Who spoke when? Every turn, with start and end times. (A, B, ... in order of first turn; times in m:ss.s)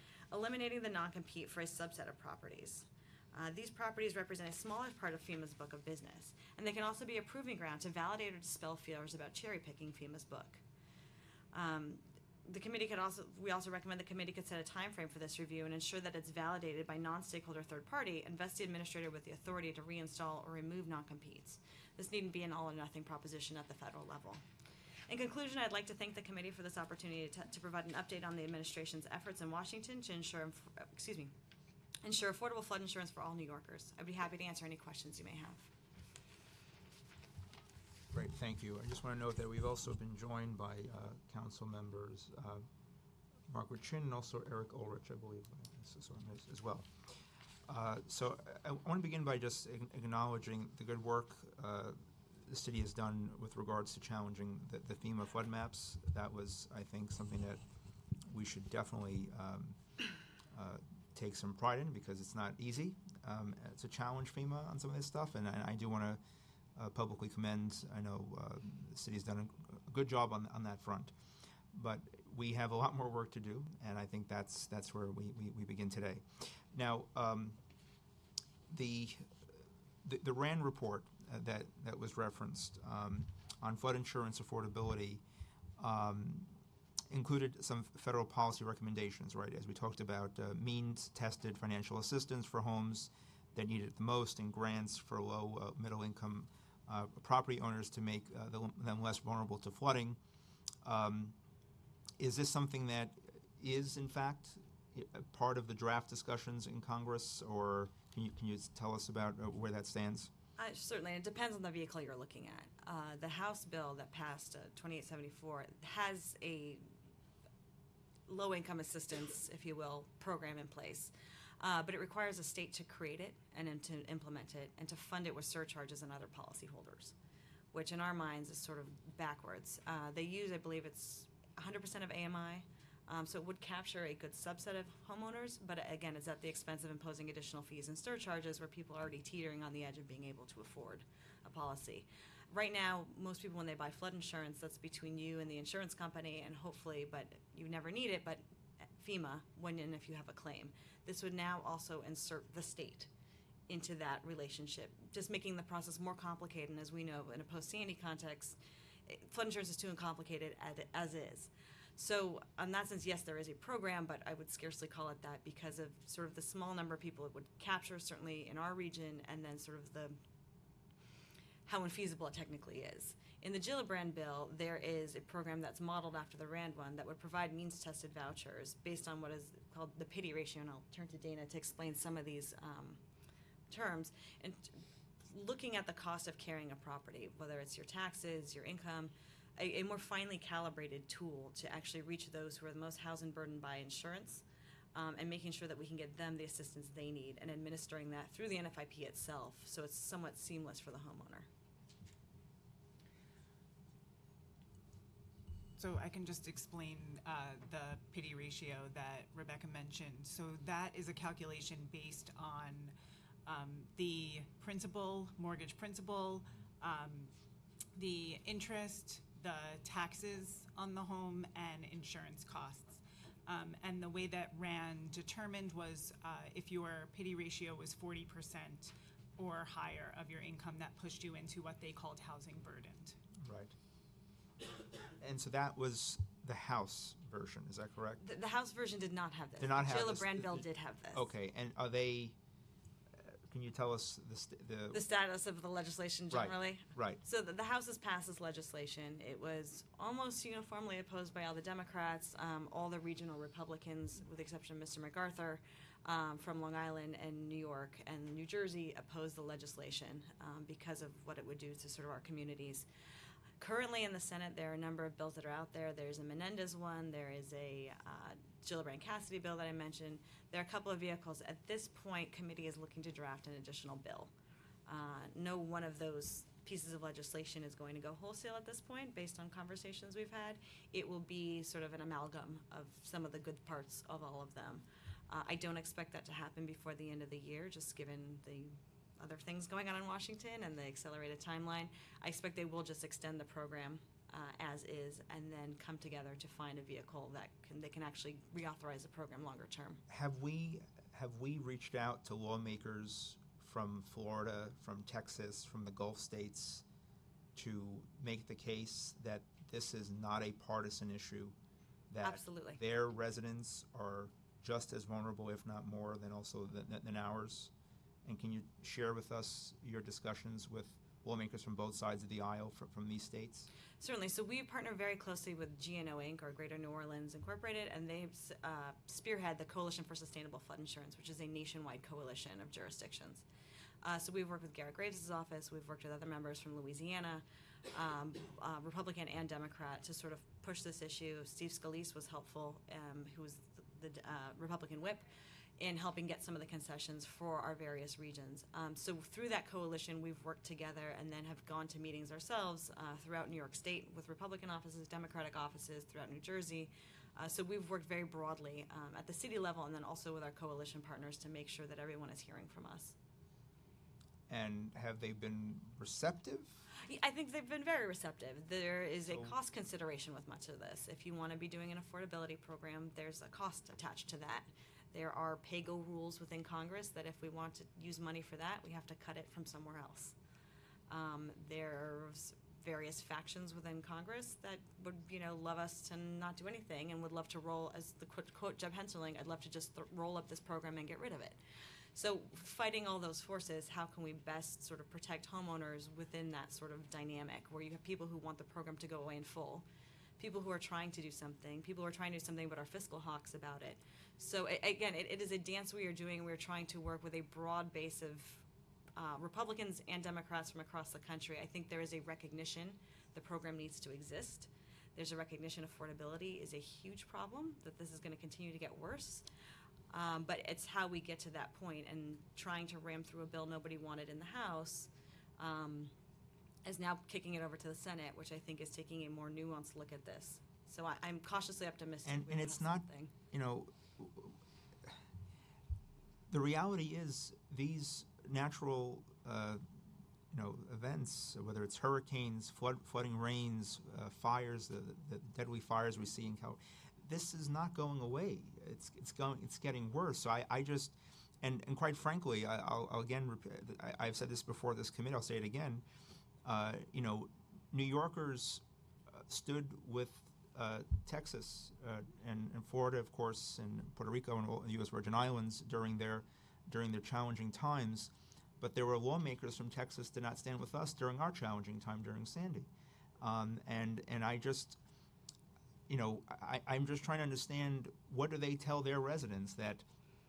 0:00.3-0:10.6 A
0:11.5-0:24.4 A
0:25.1-0:31.3 A
0:32.0-0:35.7 A
0:38.1-0:42.7 B
0:43.5-0:46.9 B
0:47.7-0:57.6 B
0:58.2-0:59.8 B
1:00.5-1:06.2 B
1:06.8-1:11.1 B
1:11.7-1:17.6 B
1:18.7-1:25.2 B
1:25.8-1:26.6 B
1:27.1-1:40.2 B
1:40.8-1:41.4 B
1:42.2-1:50.3 B
1:50.6-1:56.9 A
1:58.3-2:07.1 A
2:07.7-2:33.1 A
2:33.7-2:50.2 A
2:51.7-3:03.0 A
3:03.7-3:21.5 A
3:25.8-3:32.9 C
3:33.5-3:37.3 C
3:38.0-3:53.2 C
3:53.4-3:53.7 B
3:55.2-3:58.2 B
3:58.2-4:01.3 A
3:59.6-4:02.4 B
4:03.2-4:05.0 B
4:04.9-4:22.9 A
4:06.3-4:07.2 B
4:23.6-4:34.3 A
4:34.9-5:00.0 A
5:00.1-5:06.8 B
5:07.6-5:11.6 B
5:12.1-5:17.7 B
5:12.2-5:12.8 A
5:18.2-5:23.7 B
5:24.0-5:33.4 A
5:34.0-5:45.3 A
5:45.8-6:03.2 A
6:04.5-6:06.9 B
6:07.0-6:20.4 A
6:09.3-6:09.6 B
6:21.1-6:31.6 A
6:32.2-6:39.9 A
6:40.4-6:48.6 A
6:49.2-6:59.5 A
7:00.1-7:06.1 A
7:06.8-7:13.3 A
7:12.2-7:15.2 B
7:16.5-7:19.9 B
7:20.5-7:36.0 B
7:36.6-7:52.9 B
7:53.4-7:55.0 B
7:56.1-8:00.0 B